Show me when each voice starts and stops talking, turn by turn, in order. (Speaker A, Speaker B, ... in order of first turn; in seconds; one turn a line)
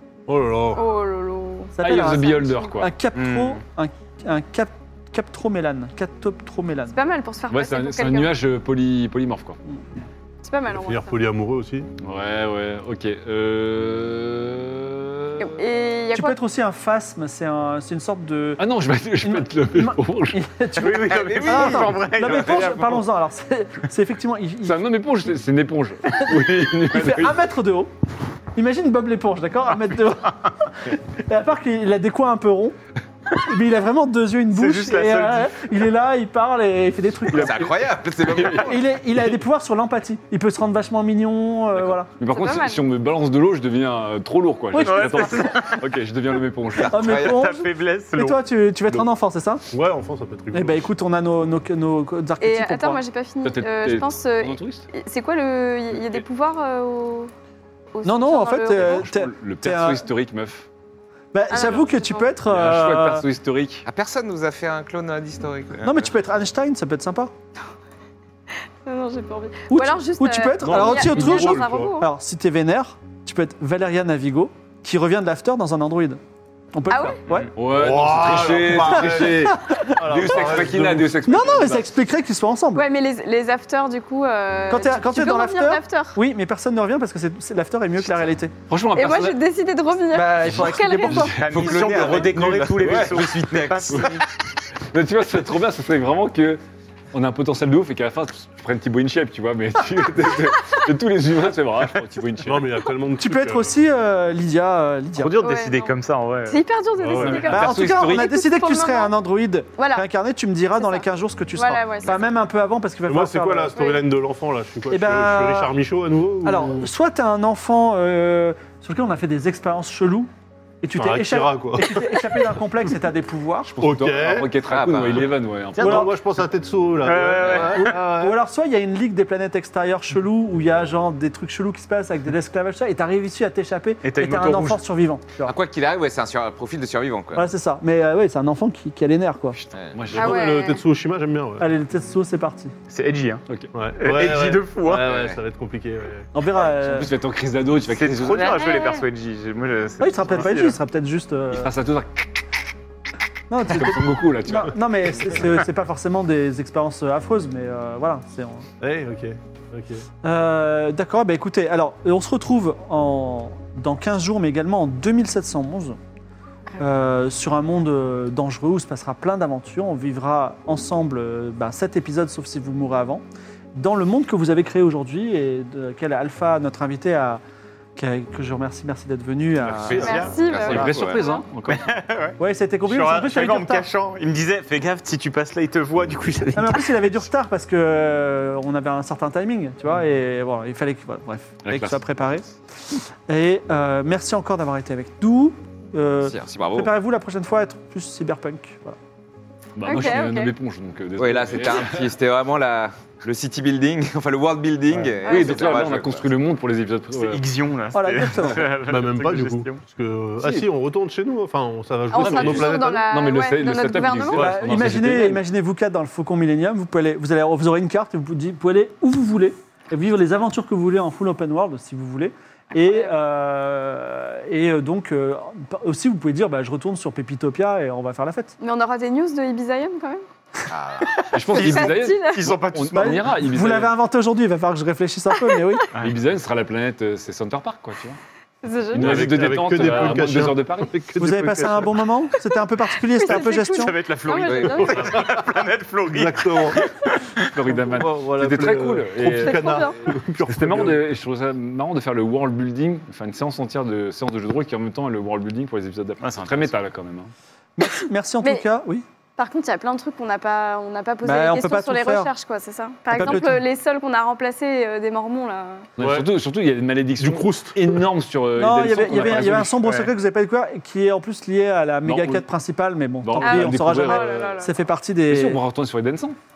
Speaker A: 0.3-0.9
Speaker B: 0.7-2.8
Speaker C: 1.8-7.0
Speaker D: 1.8-2.9
Speaker E: 3.1-3.6
Speaker B: 6.9-8.3
Speaker D: 7.5-9.6
Speaker B: 10.4-11.1
Speaker A: 10.7-11.9
Speaker D: 12.0-15.5
Speaker B: 15.4-16.4
Speaker C: 16.1-18.6
Speaker D: 18.6-20.5
Speaker C: 19.2-24.9
Speaker E: 20.8-23.0
Speaker F: 21.1-21.9
Speaker D: 22.2-22.7
Speaker D: 24.6-27.4
Speaker C: 26.2-27.9
Speaker C: 28.6-32.8
Speaker C: 33.4-37.6
Speaker E: 34.5-35.7
Speaker D: 37.3-39.2
Speaker F: 37.4-38.8
Speaker C: 38.5-42.1
Speaker D: 41.8-47.0
Speaker B: 42.3-42.8
Speaker C: 44.7-45.6
Speaker E: 44.8-45.9
Speaker C: 46.9-49.6
Speaker E: 46.9-48.4
Speaker F: 47.0-47.4
Speaker A: 49.7-50.9
Speaker C: 50.5-53.0
Speaker B: 52.4-57.3
Speaker D: 53.4-54.9
Speaker D: 55.9-56.2
Speaker B: 57.9-59.1
Speaker C: 58.0-60.1
Speaker D: 58.7-60.7
Speaker C: 61.3-63.3
Speaker B: 61.5-62.3
Speaker D: 62.5-63.9
Speaker F: 63.9-66.1
Speaker C: 65.8-67.3
Speaker B: 68.8-72.1
Speaker C: 69.7-76.2
Speaker A: 70.6-72.0
Speaker C: 76.7-77.4
Speaker B: 76.9-77.4
Speaker D: 77.5-81.9
Speaker A: 77.6-81.1
Speaker C: 78.9-80.5
Speaker C: 81.2-82.8
Speaker B: 82.8-86.2
Speaker C: 84.7-88.5
Speaker D: 88.7-89.4
Speaker B: 89.0-91.3
Speaker C: 90.1-92.7
Speaker D: 90.4-91.9
Speaker E: 91.3-94.2
Speaker F: 91.6-94.2
Speaker D: 92.8-93.3
Speaker D: 94.9-96.6
Speaker D: 97.1-102.8
Speaker A: 102.4-103.8
Speaker C: 103.2-105.4
Speaker E: 105.2-106.6
Speaker B: 105.4-106.0
Speaker B: 106.5-109.1
Speaker A: 107.0-107.5
Speaker D: 107.2-108.3
Speaker C: 107.5-113.8
Speaker B: 109.8-110.1
Speaker B: 110.8-111.0
Speaker B: 111.6-112.3
Speaker A: 113.0-116.9
Speaker B: 113.8-114.0
Speaker C: 114.9-115.7
Speaker C: 116.4-120.3
Speaker C: 120.8-123.7
Speaker A: 121.0-122.2
Speaker D: 123.7-126.1
Speaker A: 123.8-124.7
Speaker F: 124.7-125.3
Speaker E: 125.8-126.0
Speaker A: 125.8-128.4
Speaker C: 125.8-126.1
Speaker E: 127.0-128.0
Speaker C: 127.6-135.6
Speaker E: 134.0-134.8
Speaker F: 135.4-137.5
Speaker C: 137.3-139.6
Speaker D: 139.6-140.5
Speaker B: 140.1-140.8
Speaker A: 140.1-141.7
Speaker C: 141.6-142.7
Speaker E: 142.9-145.1
Speaker A: 143.7-146.3
Speaker F: 145.0-145.4
Speaker C: 146.3-147.1
Speaker D: 146.7-148.7
Speaker E: 147.9-150.5
Speaker B: 148.4-149.1
Speaker C: 150.0-151.7
Speaker A: 150.3-150.8
Speaker D: 151.5-152.3
Speaker C: 153.5-158.7
Speaker D: 153.7-155.3
Speaker A: 158.8-160.0
Speaker C: 160.2-166.0
Speaker C: 166.8-173.2
Speaker C: 173.8-177.4
Speaker C: 178.0-180.9
Speaker E: 179.7-180.9
Speaker B: 179.9-181.4
Speaker D: 180.5-181.8
Speaker F: 180.7-181.2
Speaker E: 181.7-187.0
Speaker C: 182.4-183.9
Speaker C: 186.5-192.5
Speaker D: 191.6-192.0
Speaker C: 193.3-199.0
Speaker F: 196.2-196.9
Speaker D: 199.8-202.1
Speaker B: 199.8-200.5
Speaker F: 201.2-206.3
Speaker D: 205.1-207.4
Speaker B: 205.2-206.0
Speaker E: 207.1-209.8
Speaker C: 207.9-208.7
Speaker A: 208.8-213.1
Speaker B: 212.1-214.5
Speaker D: 212.2-215.4
Speaker E: 214.3-214.6
Speaker C: 214.4-228.6
Speaker B: 228.6-230.2
Speaker F: 230.7-231.1
Speaker D: 231.3-234.0
Speaker E: 231.4-233.3
Speaker B: 231.5-232.6
Speaker C: 232.9-235.9
Speaker D: 236.0-238.2
Speaker B: 238.6-239.3
Speaker D: 238.9-240.9
Speaker A: 238.9-242.1
Speaker C: 241.2-243.9
Speaker B: 243.1-245.3
Speaker E: 243.7-247.5
Speaker F: 244.5-245.1
Speaker A: 245.0-245.4
Speaker A: 246.1-246.8
Speaker D: 247.5-249.8
Speaker A: 247.8-251.1
Speaker B: 249.2-250.1
Speaker D: 250.5-257.3
Speaker E: 256.2-256.8
Speaker C: 257.8-259.1
Speaker B: 259.4-265.9
Speaker C: 261.2-262.3
Speaker C: 263.1-263.6
Speaker A: 266.0-266.3
Speaker D: 266.0-270.1
Speaker A: 267.2-268.0
Speaker C: 268.6-275.6
Speaker A: 268.9-270.1
Speaker D: 272.1-272.4
Speaker D: 273.2-274.5
Speaker B: 273.4-274.8
Speaker D: 275.3-276.4